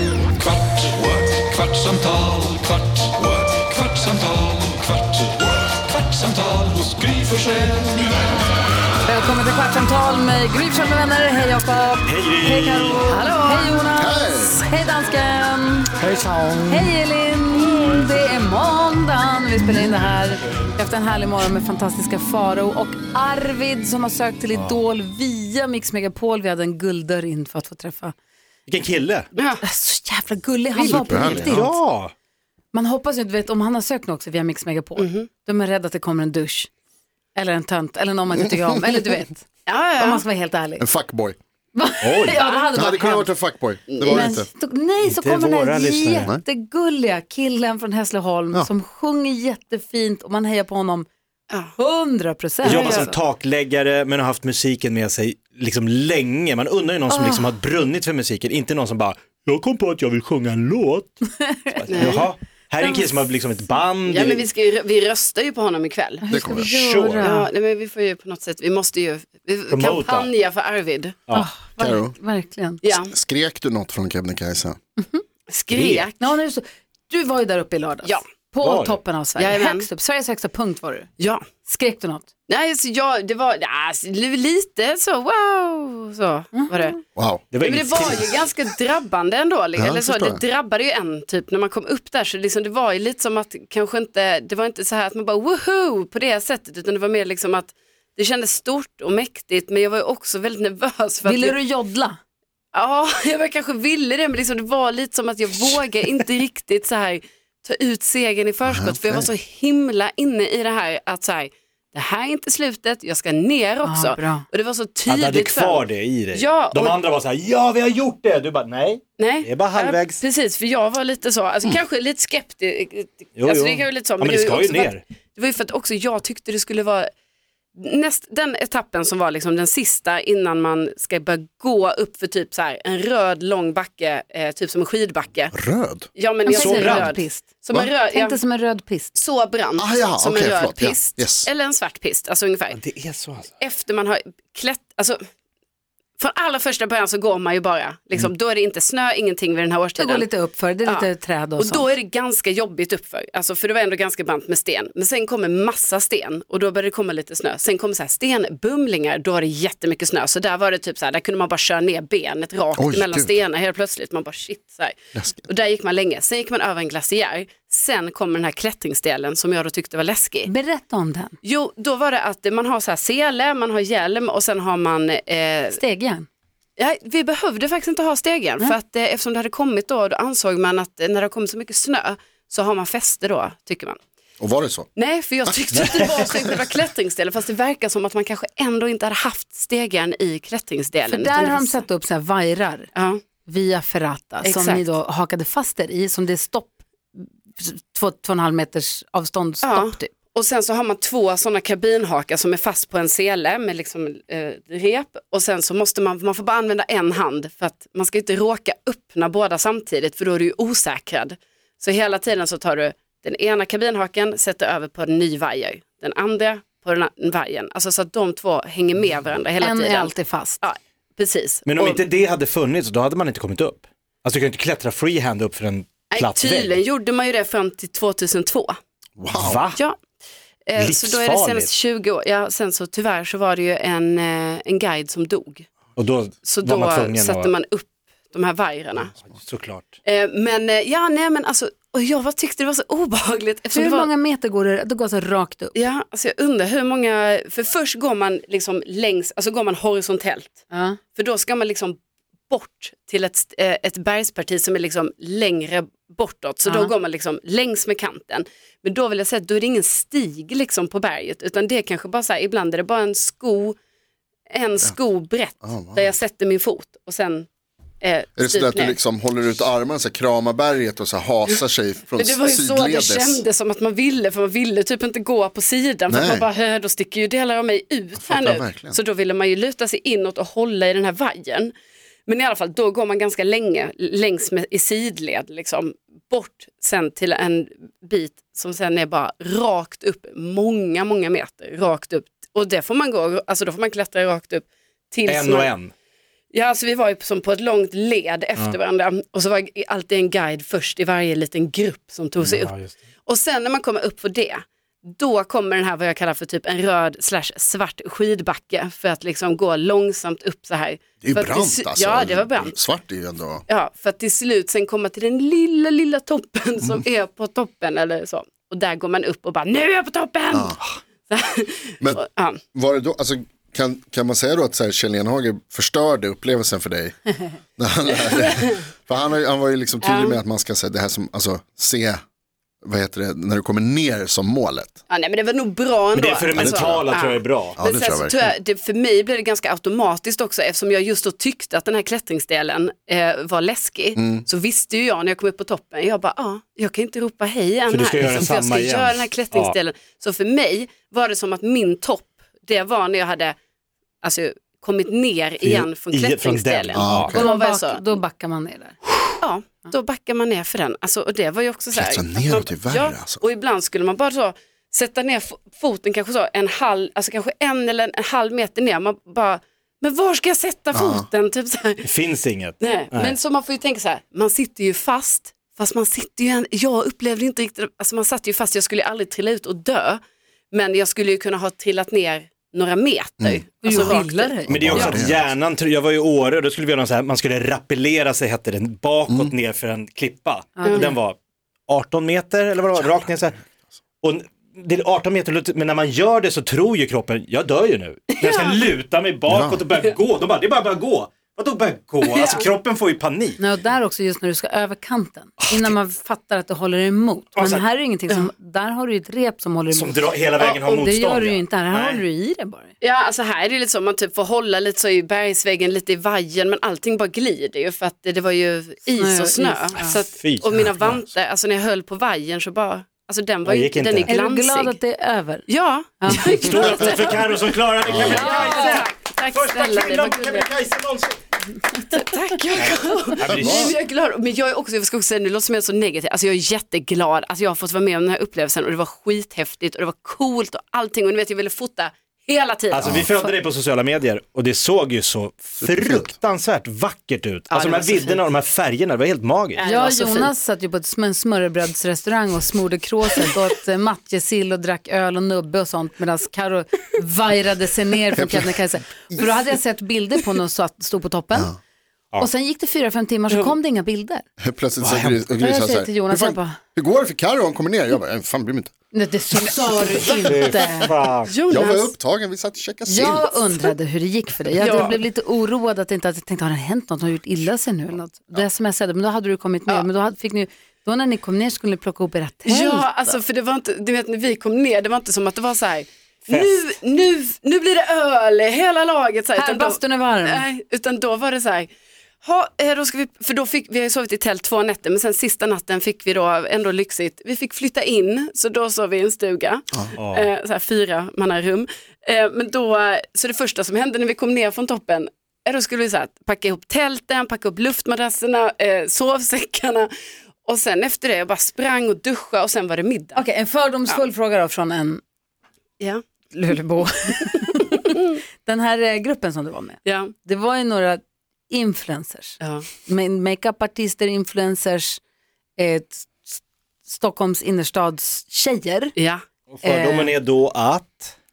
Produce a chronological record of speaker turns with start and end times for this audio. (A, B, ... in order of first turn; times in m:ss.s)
0:06.1-0:07.9 A
0:09.0-0:15.9 B
0:12.0-0:13.1 C
0:13.1-0:13.8 D
0:14.0-0:14.6 E
0:16.0-0:16.9 A
0:16.6-0:28.1 B
0:28.7-0:29.2 C
0:29.4-0:29.6 D
0:29.6-0:31.8 B
0:30.8-0:31.6 E
0:31.3-0:32.1 C
0:32.7-0:36.7 B
0:35.0-0:35.3 D
0:37.3-0:39.5 B
0:39.6-0:40.2 D
0:40.0-0:40.8 B
0:40.8-0:41.4 E
0:41.7-0:43.4 B
0:42.0-0:42.4 C
0:42.4-0:42.8 D
0:42.7-0:44.5 E
0:43.9-0:44.3 D
0:44.0-0:51.1 B
0:45.0-0:46.3 C
0:51.8-0:53.1 B
0:52.6-0:53.2 D
0:52.6-1:01.2 C
0:57.1-0:57.5 B
1:01.3-1:02.2 B
1:01.8-1:04.4 C
1:01.9-1:02.3 D
1:02.8-1:03.1 D
1:04.1-1:06.3 D
1:06.2-1:07.5 B
1:06.3-1:06.8 E
1:06.6-1:07.3 C
1:07.2-1:11.2 D
1:09.7-1:10.3 C
1:11.3-1:12.8 B
1:11.8-1:12.1 E
1:12.8-1:13.1 D
1:12.9-1:14.8 E
1:15.0-1:15.2 B
1:15.5-1:16.3 D
1:15.7-1:16.0 C
1:16.2-1:21.1 B
1:18.6-1:19.0 C
1:19.3-1:19.9 D
1:21.2-1:21.4 D
1:21.6-1:22.3 B
1:22.5-1:27.0 D
1:26.5-1:26.9 B
1:27.2-1:27.4 E
1:27.5-1:28.2 C
1:27.6-1:41.6 D
1:29.8-1:30.4 E
1:41.2-1:42.2 B
1:42.7-1:57.0 D
1:48.6-1:49.2 E
1:53.8-1:54.4 B
1:55.1-2:00.2 C
1:59.2-2:07.1 D
2:03.4-2:05.0 C
2:07.8-2:15.5 D
2:15.5-2:16.1 E
2:16.2-2:18.4 D
2:16.4-2:17.5 B
2:16.6-2:17.1 C
2:18.0-2:19.1 B
2:19.1-2:22.8 D
2:19.8-2:21.5 E
2:22.7-2:23.5 C
2:23.6-2:25.2 D
2:26.2-2:30.3 D
2:30.0-2:31.9 B
2:31.6-2:50.5 D
2:42.8-2:43.4 E
2:45.1-2:45.5 E
2:50.4-2:51.4 B
2:51.4-2:55.8 D
2:55.7-2:56.3 B
2:56.8-3:04.0 D
3:04.4-3:04.9 E
3:05.0-3:11.8 D
3:11.1-3:12.9 B
3:12.9-3:13.2 D
3:13.4-3:20.1 B
3:14.4-3:14.8 D
3:19.6-3:42.0 D
3:39.6-3:40.6 B
3:41.6-3:46.8 C
3:46.1-3:48.7 D
3:49.2-3:49.6 E
3:49.4-3:49.8 C
3:50.7-3:55.7 D
3:50.8-3:51.7 C
3:56.0-3:57.5 C
3:56.4-3:59.1 D
3:59.2-3:59.9 C
4:00.0-4:04.1 D
4:03.7-4:05.7 B
4:05.7-4:23.8 D
4:10.7-4:11.0 B
4:16.6-4:16.9 B
4:24.5-4:27.5 D
4:25.6-4:26.2 E
4:28.0-4:29.0 D
4:28.4-4:33.4 E
4:32.2-4:41.7 D
4:36.1-4:36.4 E
4:38.2-4:39.0 E
4:42.3-4:55.7 D
4:55.3-4:55.9 C
4:56.5-5:02.7 D
5:02.4-5:02.9 C
5:03.2-5:12.8 D
5:11.2-5:13.6 E
5:13.7-5:20.8 D
5:20.5-5:20.8 E
5:21.3-5:22.6 D
5:22.0-5:27.2 E
5:27.8-5:32.2 E
5:28.1-5:28.8 D
5:30.0-5:30.4 D
5:32.8-5:35.0 E
5:35.1-5:53.6 D
5:36.1-5:37.8 C
5:36.5-5:37.1 E
5:37.8-5:38.5 E
5:44.2-5:44.4 E
5:47.9-5:49.7 C
5:54.2-5:58.0 D
5:55.6-5:57.3 C
5:56.9-5:57.4 E
5:57.3-5:59.1 B
5:59.4-6:12.0 D
6:01.9-6:03.4 E
6:10.9-6:11.3 E
6:12.0-6:13.3 C
6:12.8-6:20.2 D
6:20.7-6:25.2 D
6:23.4-6:25.5 E
6:23.8-6:24.8 B
6:24.7-6:31.4 C
6:30.8-6:31.2 B
6:30.8-6:31.1 D
6:31.9-6:33.6 C
6:34.2-6:43.6 C
6:38.4-6:38.8 D
6:39.5-6:39.8 E
6:42.2-6:42.6 D
6:43.6-6:52.9 B
6:45.6-6:45.9 C
6:47.6-6:47.8 C
6:49.9-6:52.2 C
6:50.6-6:50.9 D
6:53.0-7:05.0 D
6:59.2-7:00.2 B
7:00.4-7:01.0 C
7:03.6-7:04.3 C
7:04.3-7:05.7 B
7:05.7-7:10.7 D
7:06.2-7:06.9 B
7:06.5-7:11.4 C
7:08.1-7:08.4 E
7:08.1-7:09.0 B
7:12.0-7:23.5 D
7:13.4-7:13.9 C
7:13.5-7:14.0 E
7:22.9-7:29.8 C
7:25.8-7:26.3 E
7:27.7-7:28.4 D
7:29.8-7:30.5 D
7:29.8-7:41.7 B
7:38.4-7:38.8 E
7:42.4-7:44.4 B
7:44.6-7:48.9 E
7:45.0-7:45.3 C
7:45.6-7:46.8 B
7:49.1-7:51.2 B
7:50.2-7:51.1 E
7:50.4-7:51.5 C
7:51.5-7:52.1 D
7:51.7-7:53.6 E
7:53.0-8:03.4 B
7:54.8-7:55.2 D
8:02.6-8:11.9 D
8:09.5-8:10.6 B
8:12.4-8:30.1 D
8:20.2-8:20.5 C
8:30.6-8:33.4 D
8:33.3-8:35.2 B
8:36.5-8:45.2 B
8:40.0-8:40.3 D
8:42.6-8:42.8 D
8:45.8-8:49.1 B
8:49.2-8:49.4 D
8:49.8-8:51.3 C
8:49.8-8:50.3 B